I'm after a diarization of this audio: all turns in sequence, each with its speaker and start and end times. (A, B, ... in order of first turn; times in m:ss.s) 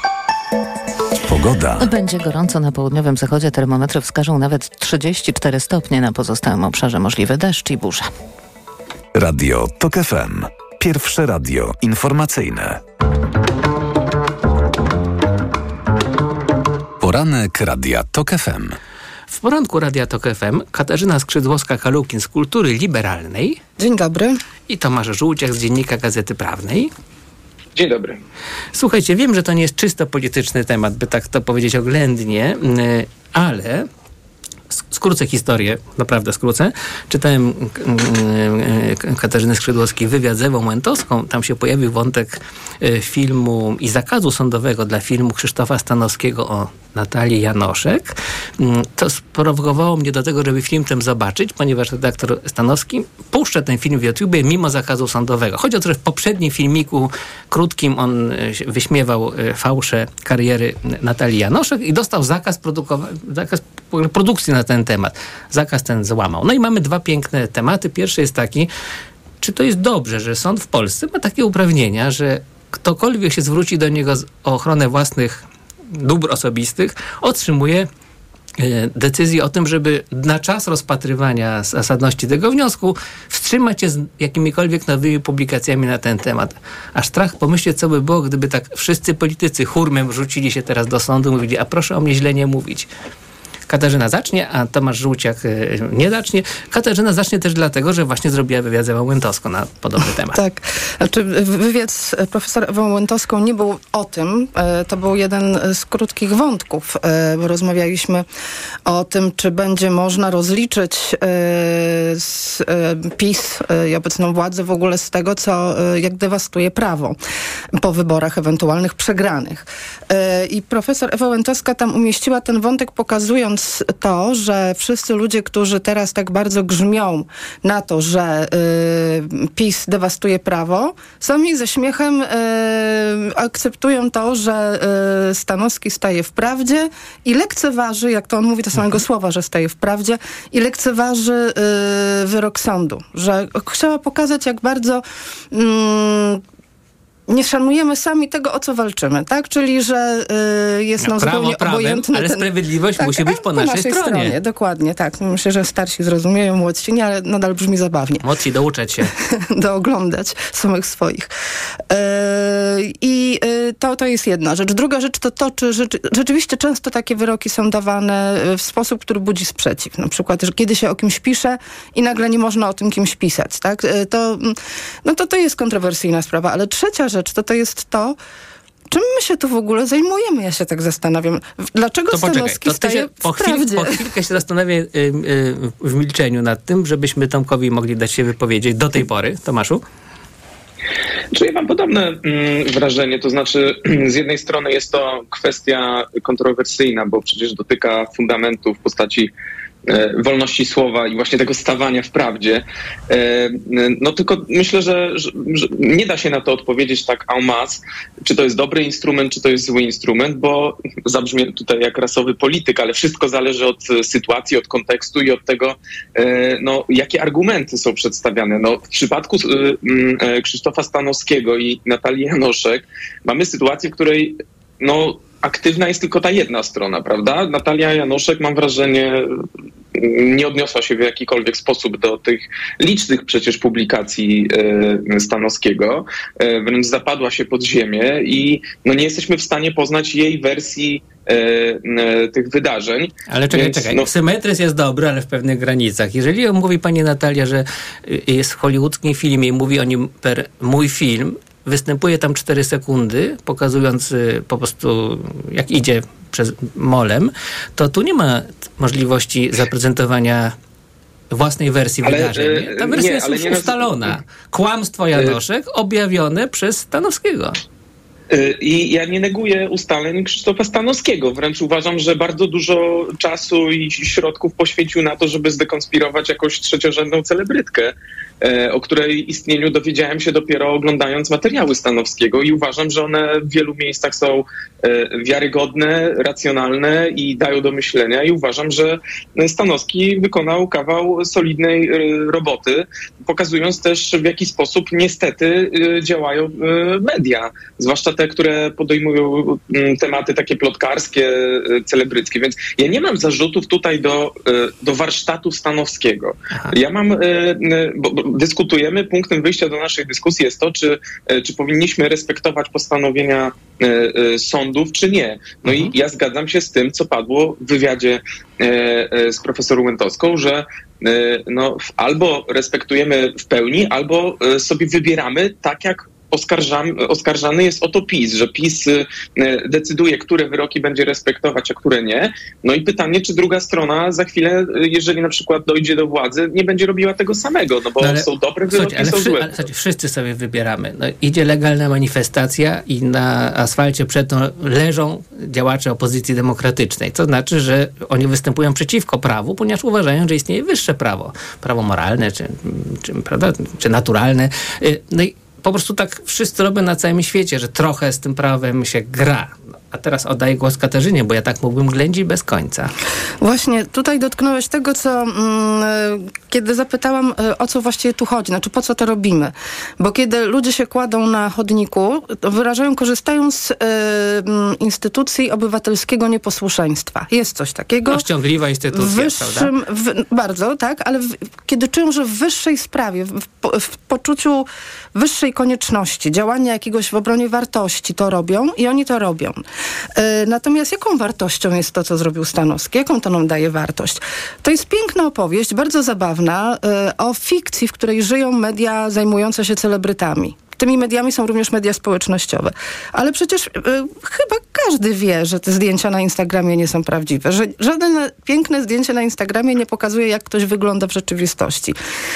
0:01.3-0:01.9 A
0:01.8-0:08.1 B
0:09.2-0:12.8 A
0:17.0-0:18.8 A
0:19.3-0:23.6 C
0:23.8-0:24.4 D
0:24.7-0:26.9 C
0:27.8-0:28.2 E
0:28.7-0:33.9 C
0:34.9-1:08.7 C
1:09.4-1:17.9 C
1:18.6-1:32.9 C
1:33.7-1:40.4 C
1:40.3-1:48.2 D
1:48.9-1:57.2 D
1:57.8-2:26.4 D
2:18.8-2:19.0 C
2:27.3-2:38.2 D
2:31.0-2:34.4 C
2:38.2-2:39.1 C
2:39.2-2:41.3 D
2:41.9-2:58.2 D
2:58.9-3:04.0 D
3:02.1-3:09.8 C
3:11.3-3:19.3 E
3:19.9-3:49.3 E
3:50.0-4:04.1 E
4:03.3-4:20.6 C
4:21.3-4:27.6 C
4:22.0-4:24.2 E
4:25.1-4:25.4 E
4:28.3-5:39.6 E
5:15.7-5:15.9 C
5:38.0-6:02.9 C
6:03.4-6:18.2 D
6:18.1-6:19.7 C
6:18.9-6:29.6 D
6:30.2-6:52.0 D